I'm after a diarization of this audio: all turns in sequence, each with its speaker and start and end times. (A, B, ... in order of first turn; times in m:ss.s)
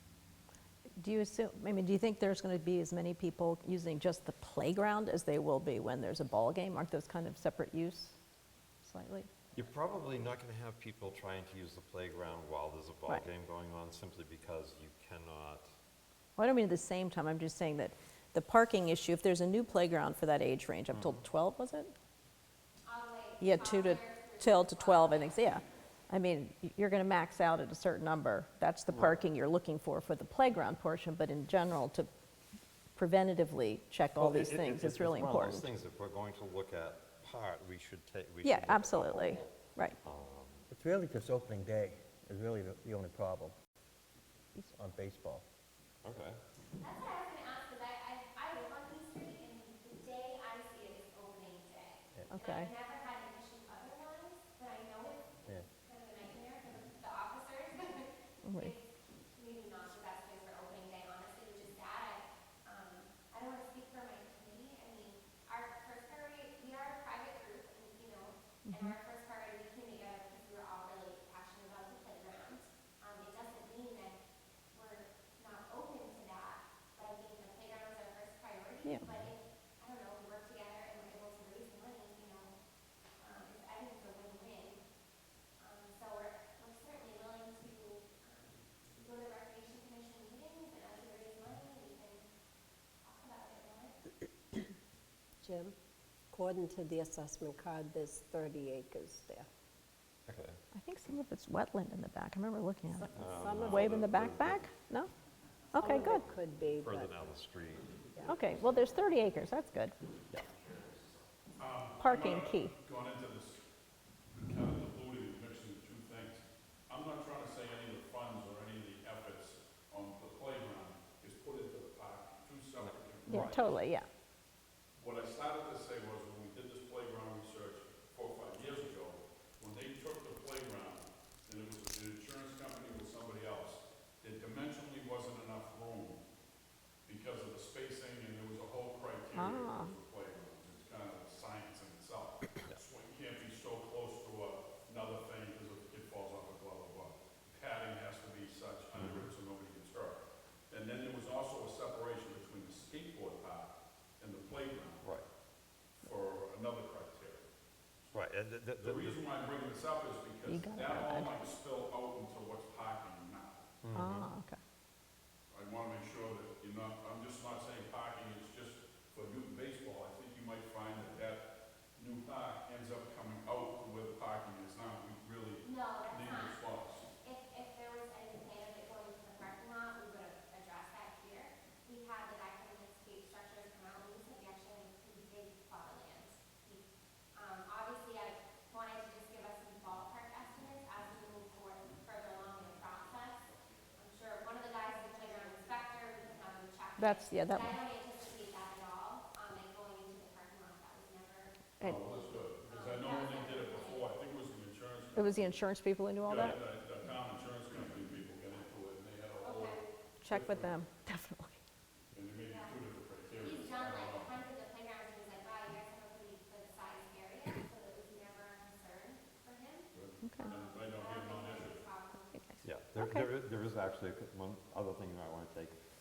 0:01.0-0:08.2 A
0:08.8-0:09.3 A
0:09.5-0:15.7 B
0:16.4-0:21.9 A
0:20.9-0:21.3 B
0:22.8-0:25.7 C
0:23.4-0:32.1 A
0:33.0-0:35.7 A
0:34.2-0:40.7 B
0:38.4-0:40.0 A
0:40.7-0:43.6 D
0:44.6-0:45.4 D
0:46.0-0:46.4 B
0:46.8-1:14.2 C
0:52.3-0:52.7 A
0:58.5-0:58.7 A
1:08.7-1:09.0 A
1:14.7-1:22.5 C
1:19.0-1:19.3 B
1:23.2-1:24.8 C
1:25.6-1:32.2 C
1:33.0-1:34.0 C
1:35.4-1:35.8 E
1:36.3-1:39.5 E
1:40.3-1:40.6 B
1:40.7-1:43.1 A
1:43.0-1:44.5 E
1:43.1-1:44.6 B
1:43.6-1:45.1 A
1:45.7-1:46.2 A
1:45.7-1:47.1 E
1:45.9-1:47.9 B
1:48.3-1:50.0 A
1:50.3-1:51.0 B
1:51.6-1:53.6 F
1:52.0-1:52.7 A
1:54.4-2:03.8 F
2:03.3-2:04.1 A
2:05.0-2:16.2 F
2:17.1-2:35.1 F
2:19.4-2:19.9 A
2:29.0-2:29.3 B
2:36.0-2:37.4 F
2:38.1-2:39.2 B
2:38.8-2:43.7 F
2:40.5-2:41.3 A
2:43.8-2:44.3 B
2:44.0-2:44.6 A
2:45.5-2:51.4 F
2:52.0-2:57.1 F
2:55.6-2:56.6 C
2:57.2-3:13.4 C
3:14.0-3:21.6 C
3:17.0-3:17.8 A
3:21.8-3:25.6 F
3:22.6-3:24.1 C
3:25.2-3:26.6 A
3:26.2-3:30.8 F
3:29.4-3:29.8 C
3:30.2-3:31.6 A
3:32.1-3:34.3 F
3:32.5-3:32.8 C
3:33.4-3:39.9 C
3:39.9-3:41.8 F
3:40.2-3:40.5 A
3:40.4-3:42.4 C
3:42.4-3:43.3 A
3:42.6-3:45.8 B